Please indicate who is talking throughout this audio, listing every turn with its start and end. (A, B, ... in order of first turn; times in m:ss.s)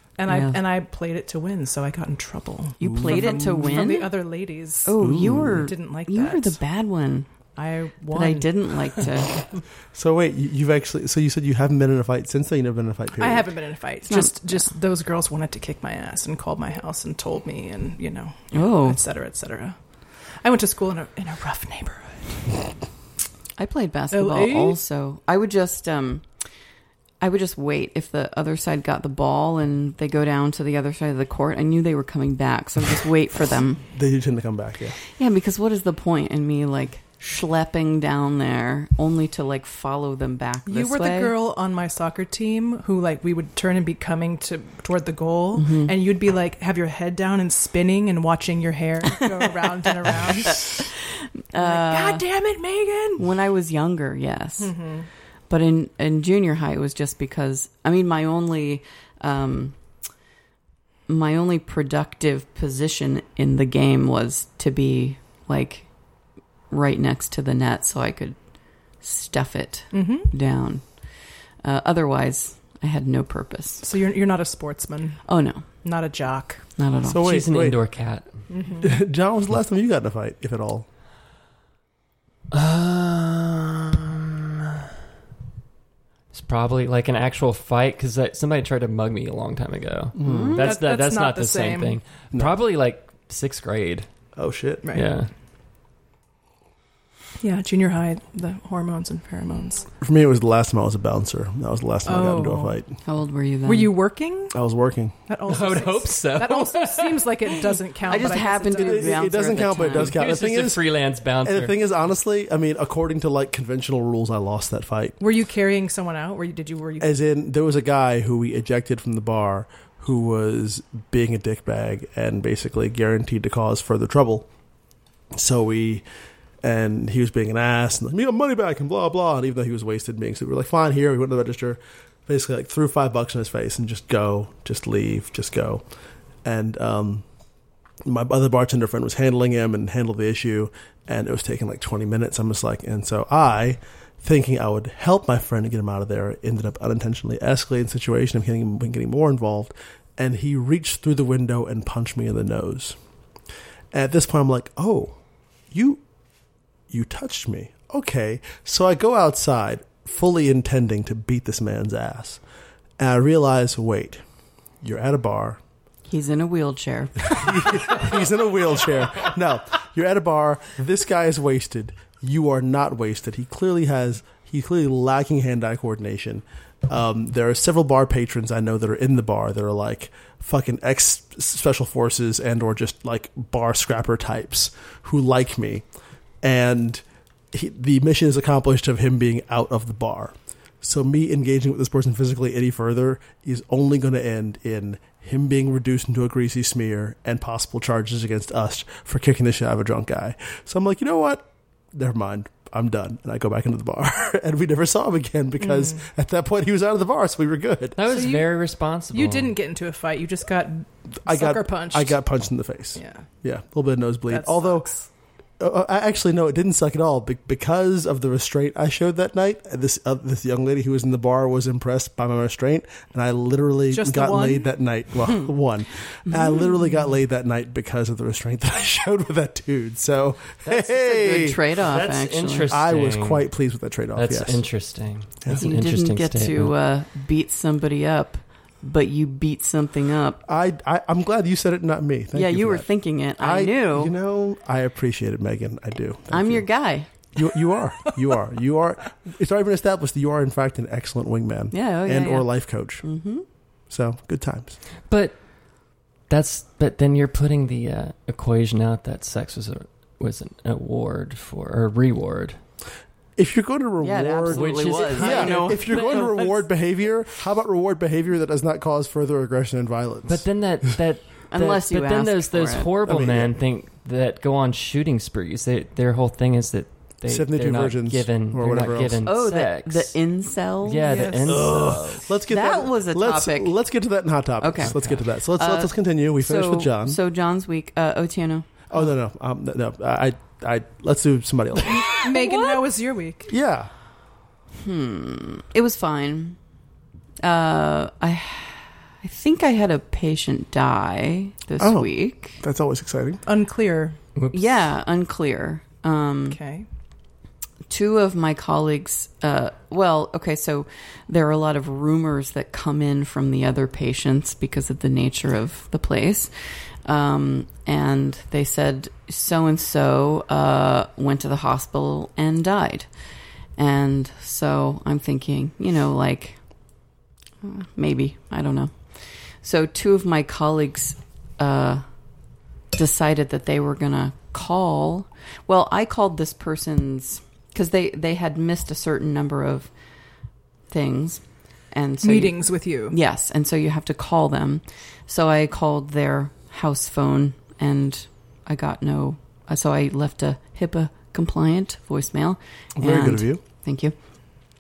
0:00.2-0:06.6 A
0:00.3-0:00.6 B
0:02.8-0:04.2 B
0:02.8-0:03.9 C
0:04.8-0:07.3 B
0:05.0-0:05.7 C
0:07.6-0:09.1 A
0:08.1-0:09.4 B
0:09.9-0:13.5 C
0:13.2-0:19.8 A
0:14.1-0:14.6 B
0:18.5-0:19.0 B
0:20.4-0:22.4 A
0:23.6-0:26.2 B
0:24.1-0:24.8 A
0:27.2-0:33.8 B
0:33.9-0:35.0 C
0:35.2-0:41.3 B
0:40.7-0:50.9 A
0:45.6-0:46.0 B
0:50.5-0:50.8 B
0:51.5-0:52.2 B
0:51.6-0:53.3 A
0:53.2-0:54.7 B
0:54.6-0:55.1 A
0:55.5-0:59.8 B
1:01.1-1:05.9 B
1:06.7-1:08.4 B
1:09.0-1:10.9 B
1:09.9-1:10.3 A
1:11.6-1:13.8 B
1:13.8-1:15.2 A
1:15.3-1:15.7 B
1:15.8-1:16.6 A
1:16.8-1:17.3 B
1:17.0-1:17.8 C
1:17.2-1:18.4 D
1:18.5-1:19.0 A
1:18.8-1:20.9 C
1:22.5-1:24.5 D
1:26.3-1:34.1 D
1:30.2-1:30.6 C
1:30.2-1:30.8 B
1:30.6-1:32.0 A
1:34.4-1:34.9 C
1:34.8-1:35.1 A
1:34.9-1:35.3 D
1:37.4-1:39.9 A
1:40.0-1:43.0 C
1:42.1-1:42.8 A
1:43.0-1:43.9 B
1:43.7-1:44.6 A
1:44.5-1:45.2 C
1:45.3-1:49.3 A
1:45.5-1:47.7 D
1:48.0-1:50.2 B
1:48.8-1:50.8 C
1:49.9-1:51.8 D
1:51.4-1:55.2 C
1:55.2-1:57.1 A
1:57.0-2:04.5 C
2:05.3-2:06.0 C
2:06.6-2:15.8 C
2:16.4-2:17.2 C
2:18.0-2:33.0 C
2:33.9-2:35.2 C
2:35.7-2:36.0 C
2:36.9-2:42.4 C
2:43.0-2:44.2 C
2:44.8-2:45.6 C
2:46.1-2:47.9 B
2:47.3-3:05.8 C
3:06.4-3:28.0 C
3:25.6-3:26.0 A
3:28.0-3:29.6 D
3:28.1-3:28.5 A
3:29.1-3:32.2 A
3:31.2-3:34.9 C
3:33.0-3:33.2 A
3:34.3-3:35.1 A
3:35.6-3:51.6 C
3:43.9-3:44.7 A
3:46.3-3:46.7 B
3:50.6-3:53.5 D
3:51.0-3:52.7 B
3:52.7-3:54.6 C
3:54.2-3:56.7 D
3:55.5-4:00.4 B
4:00.5-4:02.9 C
4:02.3-4:04.1 B
4:03.4-4:06.7 C
4:06.3-4:07.1 B
4:07.4-4:13.0 C
4:11.7-4:13.4 B
4:13.9-4:14.8 C
4:15.1-4:15.4 D
4:16.3-4:22.6 D
4:23.4-4:30.4 C
4:24.0-4:26.3 B
4:24.5-4:26.7 D
4:30.3-4:40.1 D
4:31.5-4:32.9 B
4:33.1-4:33.6 C
4:37.3-4:39.2 C
4:39.2-4:41.3 B
4:40.8-4:42.3 D
4:41.0-4:41.7 A
4:41.5-4:47.2 C
4:42.5-4:43.7 B
4:44.6-4:45.0 B
4:44.8-4:45.2 D
4:45.6-4:48.7 B
4:48.9-4:52.2 C
4:51.9-4:53.5 A
4:53.5-4:53.9 C
4:54.8-4:56.6 B
4:57.4-5:02.6 B
5:01.8-5:03.4 C
5:03.5-5:04.2 A
5:04.4-5:04.8 D
5:04.5-5:06.6 B
5:06.5-5:06.9 A
5:07.9-5:23.1 B
5:23.8-5:26.6 B
5:27.6-5:32.0 B
5:32.9-5:39.9 B
5:40.9-5:54.2 B
5:42.2-5:43.2 A
5:53.0-5:53.6 C